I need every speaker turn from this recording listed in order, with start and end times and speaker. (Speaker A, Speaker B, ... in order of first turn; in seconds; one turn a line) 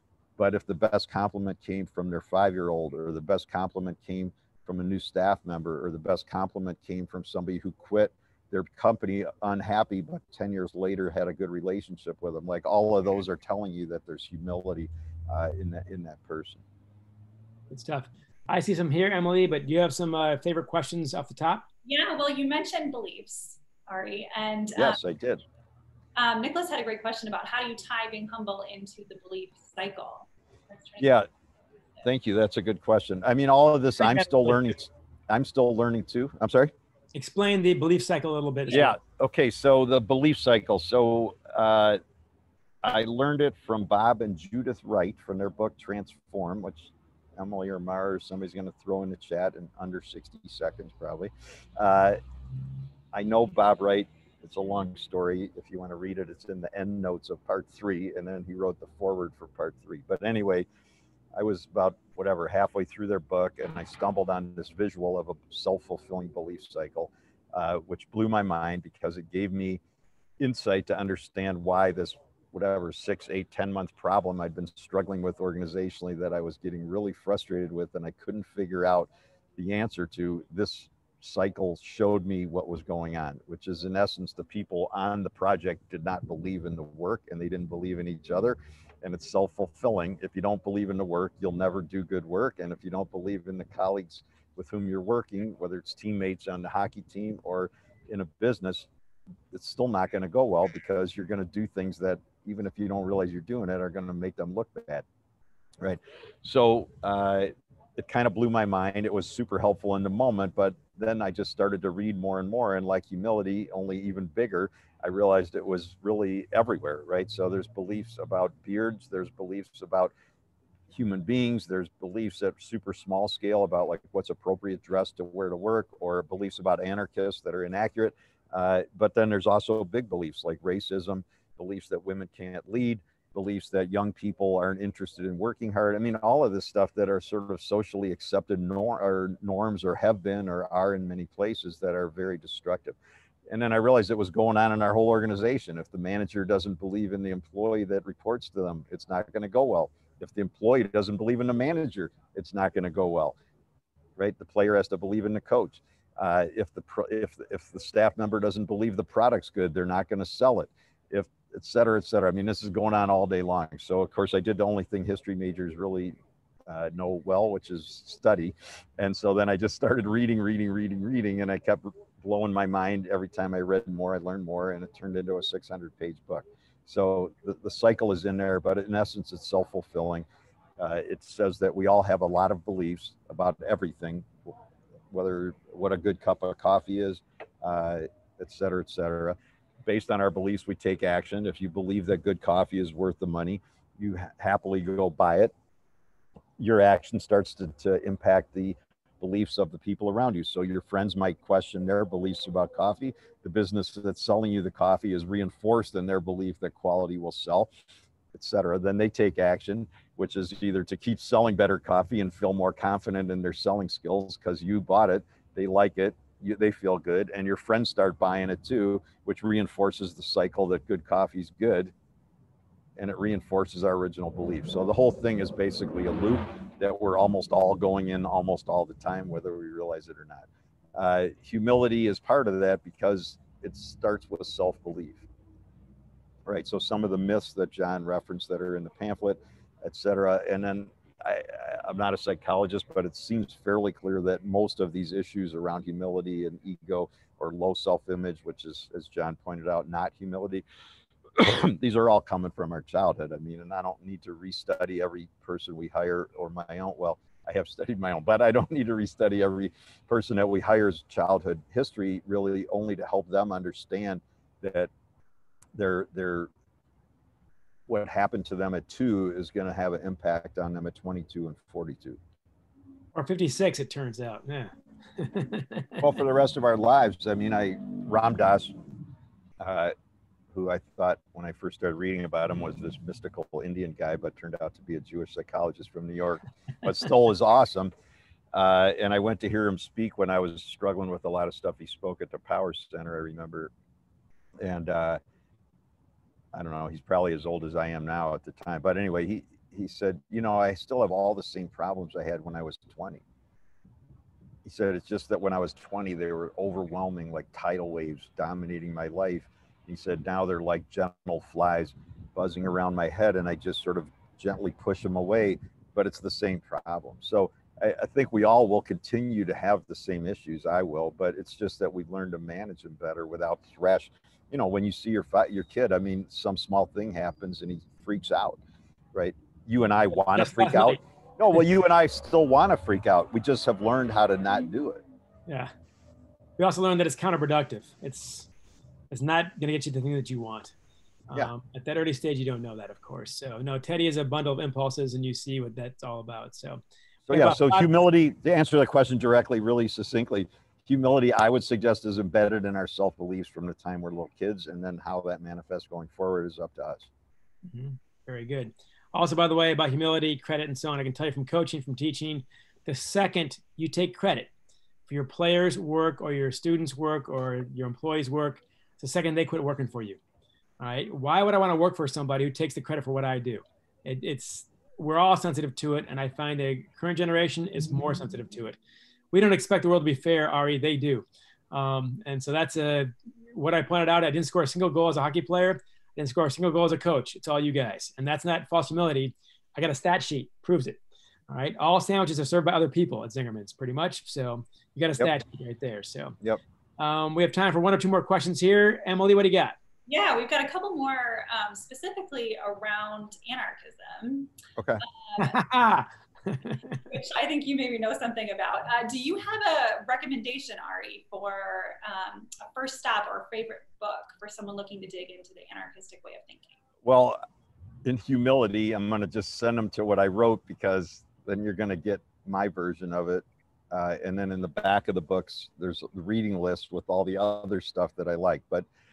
Speaker A: 0.4-16.6
Speaker B: 17.7-21.6
Speaker C: 21.8-25.0
Speaker A: 24.8-25.4
Speaker C: 26.1-31.1
Speaker A: 31.0-31.3
Speaker A: 32.0-36.7
Speaker B: 34.0-34.6
Speaker B: 37.1-38.9
Speaker A: 38.7-42.0
Speaker A: 42.8-52.2
Speaker A: 53.1-60.6
Speaker A: 61.4-69.8
Speaker A: 70.4-98.9
Speaker A: 99.5-105.0
Speaker A: 105.8-120.1
Speaker A: 120.9-143.0
Speaker A: 143.5-153.3
Speaker A: 154.2-166.2
Speaker A: 166.7-180.2
Speaker A: 180.8-184.3
Speaker A: 185.1-195.5
Speaker A: 196.6-207.7
Speaker A: 208.3-221.9
Speaker A: 223.0-235.2
Speaker A: 236.4-250.6
Speaker A: 251.3-264.9
Speaker A: 265.7-266.5
Speaker A: 267.9-272.2
Speaker B: 273.1-276.1
Speaker A: 276.0-278.7
Speaker A: 279.6-279.9
Speaker A: 280.5-287.9
Speaker A: 288.5-293.7
Speaker A: 294.6-295.2
Speaker A: 296.5-303.2
Speaker A: 304.6-328.6
Speaker A: 329.1-335.0
Speaker B: 330.3-331.0
Speaker B: 336.6-338.5
Speaker B: 339.1-340.7
Speaker B: 341.3-347.9
Speaker A: 347.3-357.1
Speaker B: 357.6-364.5
Speaker B: 365.1-370.2
Speaker B: 370.8-378.8
Speaker B: 379.3-391.0
Speaker B: 391.5-396.4
Speaker B: 397.0-399.7
Speaker C: 400.1-404.5
Speaker A: 404.8-405.0
Speaker C: 405.2-405.6
Speaker B: 405.4-407.0
Speaker C: 407.1-416.8
Speaker A: 417.0-417.4
Speaker A: 418.0-428.9